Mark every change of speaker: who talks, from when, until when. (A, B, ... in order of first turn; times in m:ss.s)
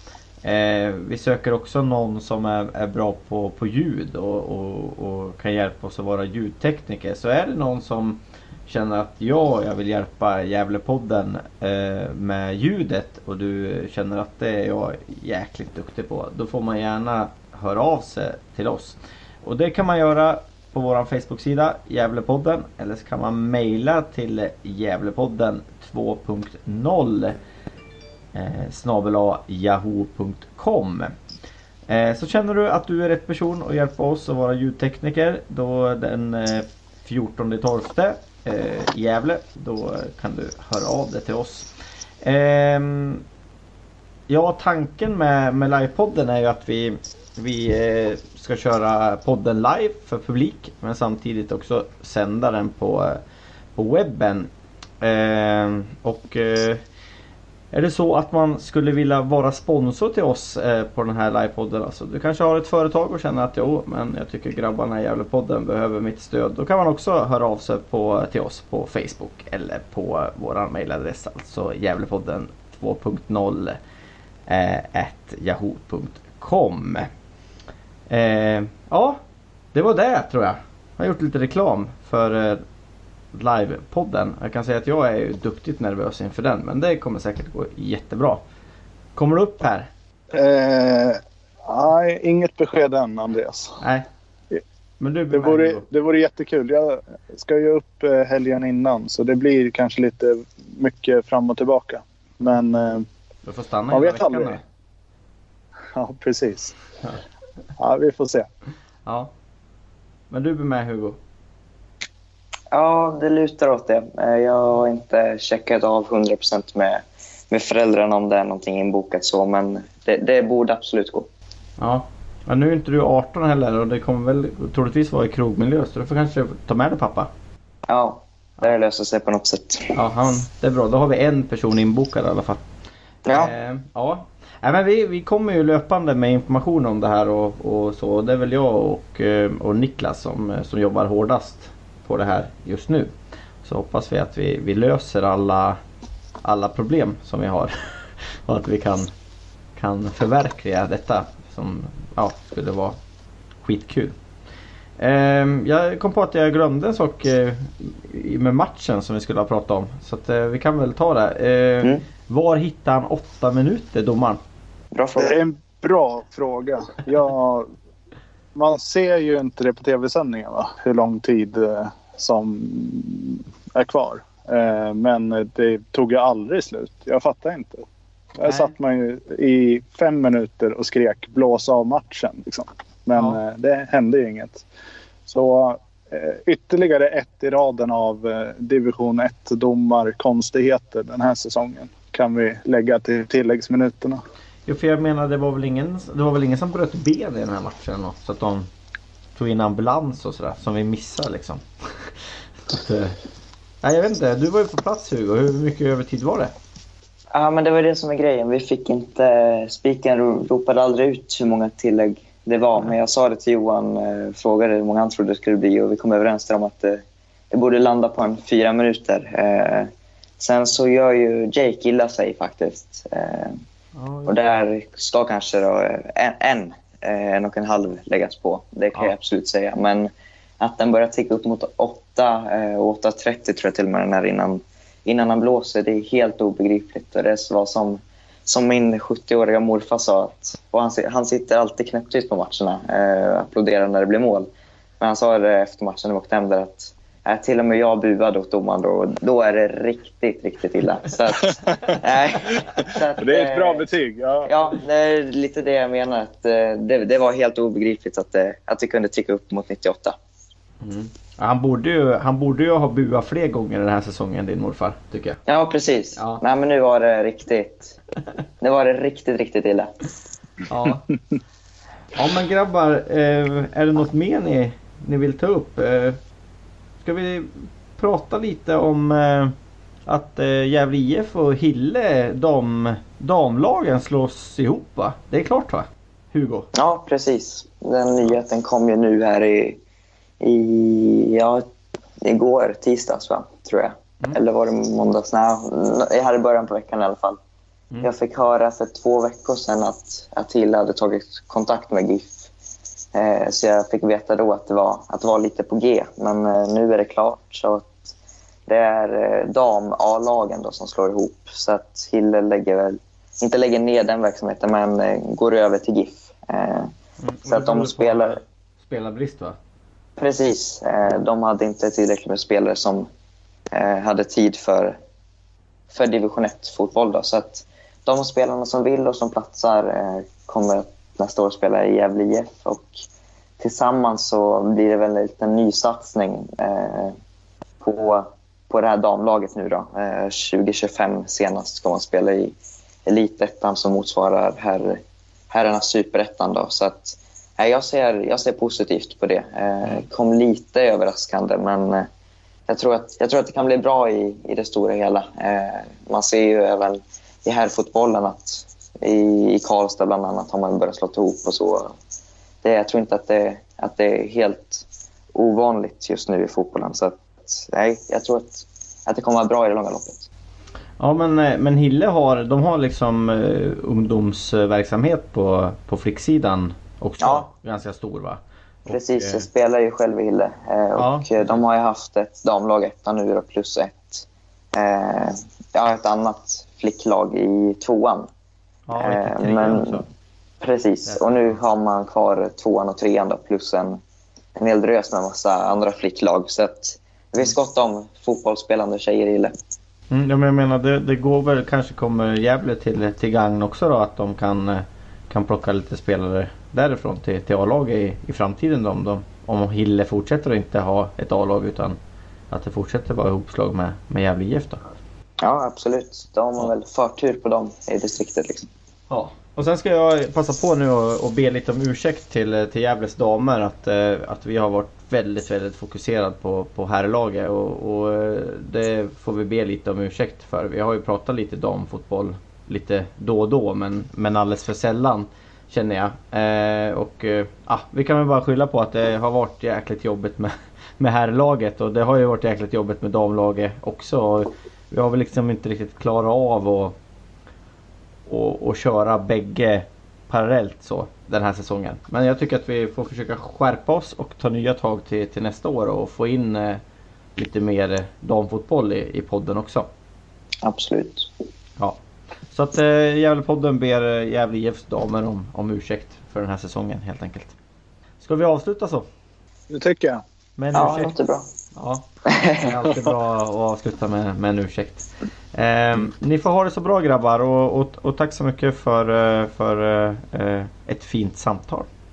0:00.4-0:27.4 A
0:28.3-0:31.1 A
0:31.9-0:41.7 A
0:42.2-0:43.2 A
0:44.3-0:53.2 A
0:53.8-0:56.8 A
0:57.7-1:13.8 A
1:14.5-1:17.1 A
1:18.1-1:19.2 A
1:19.7-1:22.6 A
1:23.3-1:28.4 A
1:29.2-1:29.9 A
1:30.3-1:33.8 B
1:33.8-1:34.1 A
1:35.0-1:35.8 A
1:35.3-1:43.0 B
1:43.4-1:44.6 A
1:43.9-1:44.6 B
1:45.9-1:46.8 B
1:47.8-1:48.5 B
1:49.0-1:49.3 A
1:50.3-1:51.2 A
1:52.7-2:01.3 C
2:01.8-2:07.3 A
2:07.9-2:09.9 C
2:09.9-2:12.6 A
2:13.3-2:13.5 C
2:13.3-2:23.1 A
2:23.6-2:25.8 A
2:26.4-2:29.1 A
2:29.8-2:33.0 A
2:33.6-2:34.2 A
2:35.0-2:44.4 A
2:44.9-2:45.4 C
2:45.2-2:47.7 B
2:48.5-2:57.8 B
2:58.4-3:04.6 B
2:58.5-2:58.7 A
3:03.1-3:03.4 A
3:05.3-3:14.2 B
3:14.7-3:18.7 A
3:19.4-3:21.6 A
3:22.7-3:23.2 A
3:23.8-3:26.5 A
3:27.3-3:43.6 C
3:44.0-3:44.3 A
3:44.2-4:13.9 C
4:13.2-4:14.6 B
4:14.4-4:20.2 C
4:20.8-4:25.4 A
4:25.5-4:28.0 C
4:28.6-4:29.9 C
4:30.7-4:31.0 A
4:32.2-4:36.2 A
4:37.0-4:39.5 A
4:40.1-4:46.7 A
4:46.7-4:49.8 C
4:50.4-4:51.7 C
4:52.2-4:57.4 C
4:58.0-5:02.5 C
5:03.1-5:08.1 C
5:08.7-5:16.9 C
5:17.2-5:19.6 A
5:17.5-5:18.4 C
5:20.2-5:23.1 C
5:23.7-5:25.0 C
5:25.9-5:33.0 C
5:33.6-5:37.1 C
5:37.8-5:52.1 C
5:52.7-6:01.9 C
6:02.6-6:10.3 C
6:11.0-6:19.5 A
6:17.2-6:17.5 C
6:18.9-6:28.3 C
6:21.0-6:21.6 A
6:28.9-6:30.0 A
6:29.0-6:30.0 C
6:30.6-6:34.0 C
6:31.0-6:31.6 A
6:34.6-6:39.5 C
6:40.1-6:52.0 A
6:52.5-6:54.8 A
6:55.4-6:58.7 C
6:59.1-7:26.9 A
7:28.3-7:36.8 A
7:37.4-7:39.9 A
7:40.6-7:41.3 C
7:42.5-7:47.5 A
7:48.2-7:49.1 A
7:49.7-7:50.2 B
7:50.6-7:51.1 A
7:50.7-7:51.5 C
7:51.7-8:01.9 A
7:52.3-7:52.7 C